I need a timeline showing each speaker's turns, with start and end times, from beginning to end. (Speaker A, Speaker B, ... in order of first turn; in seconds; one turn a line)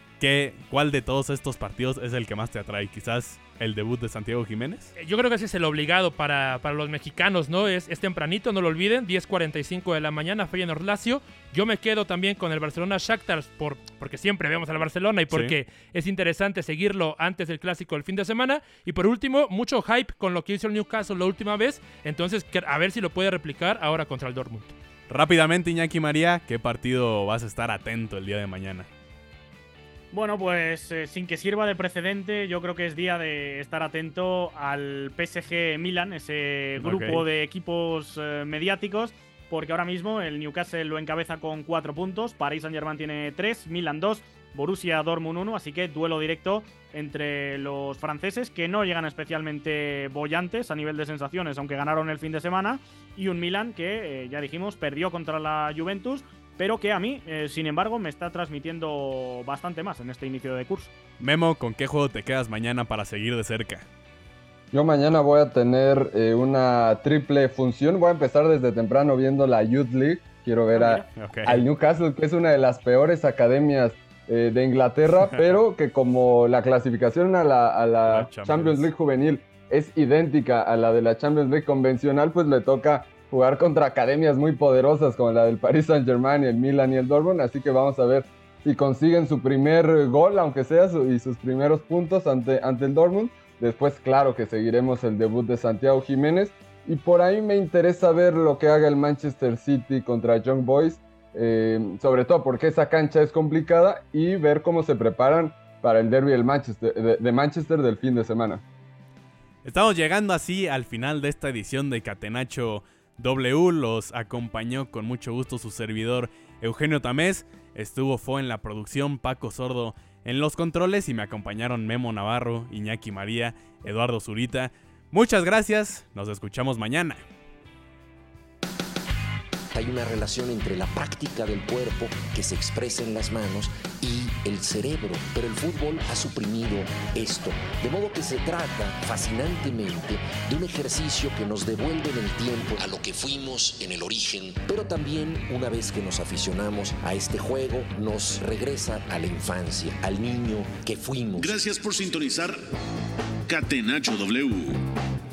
Speaker A: 0.2-4.9
Speaker B: 5.0-24.7
Speaker A: 25.1-28.9
Speaker C: 30.1-60.9
Speaker A: 36.8-37.2
Speaker A: 61.2-63.9
Speaker D: 64.7-108.6
Speaker C: 70.7-71.0
Speaker A: 71.2-71.6
Speaker A: 78.1-78.9
Speaker A: 109.6-127.2
Speaker E: 129.7-151.5
Speaker F: 151.3-152.6
Speaker F: 153.5-154.8